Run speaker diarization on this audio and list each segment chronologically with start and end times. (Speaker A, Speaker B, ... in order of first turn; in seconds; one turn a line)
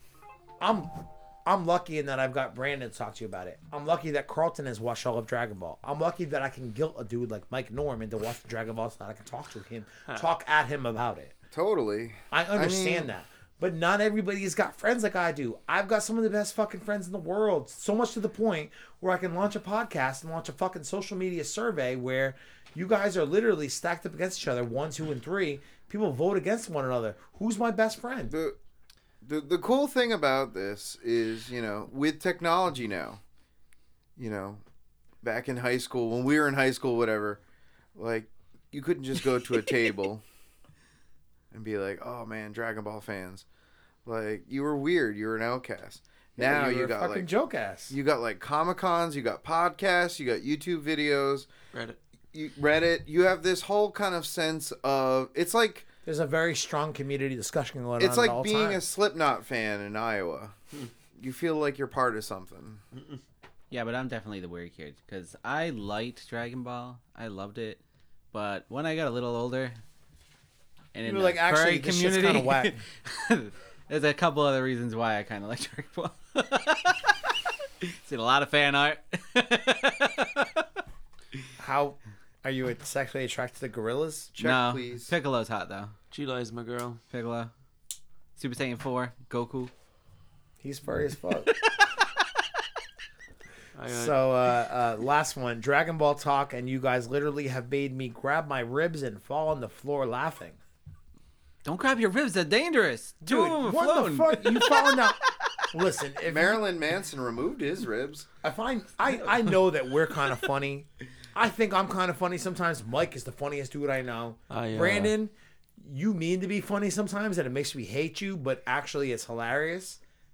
Speaker A: 0.6-11.3
Speaker B: 11.5-13.1
Speaker A: 12.3-28.3
Speaker B: 28.3-28.6
Speaker B: 29.2-33.2
Speaker B: 34.2-34.6
Speaker B: 35.2-37.4
Speaker B: 37.9-40.2
Speaker B: 41.5-43.4
Speaker B: 44.0-47.3
Speaker A: 46.4-47.9
Speaker B: 47.9-51.5
Speaker C: 51.7-52.0
Speaker B: 52.3-55.9
Speaker A: 56.0-58.8
Speaker B: 58.0-60.5
Speaker B: 61.2-62.8
Speaker D: 63.7-67.8
Speaker D: 68.3-69.8
Speaker D: 70.9-77.3
Speaker A: 71.0-72.8
Speaker D: 77.8-80.5
Speaker A: 81.6-84.3
Speaker B: 84.3-85.1
Speaker D: 84.4-85.9
Speaker C: 86.1-87.0
Speaker D: 87.1-87.5
Speaker D: 88.3-89.7
Speaker A: 90.6-91.5
Speaker D: 91.8-92.0
Speaker C: 93.7-94.1
Speaker A: 93.9-100.6
Speaker D: 101.6-105.1
Speaker A: 103.2-105.2
Speaker A: 105.7-106.6
Speaker B: 106.3-108.3
Speaker A: 108.4-120.0
Speaker C: 114.5-115.1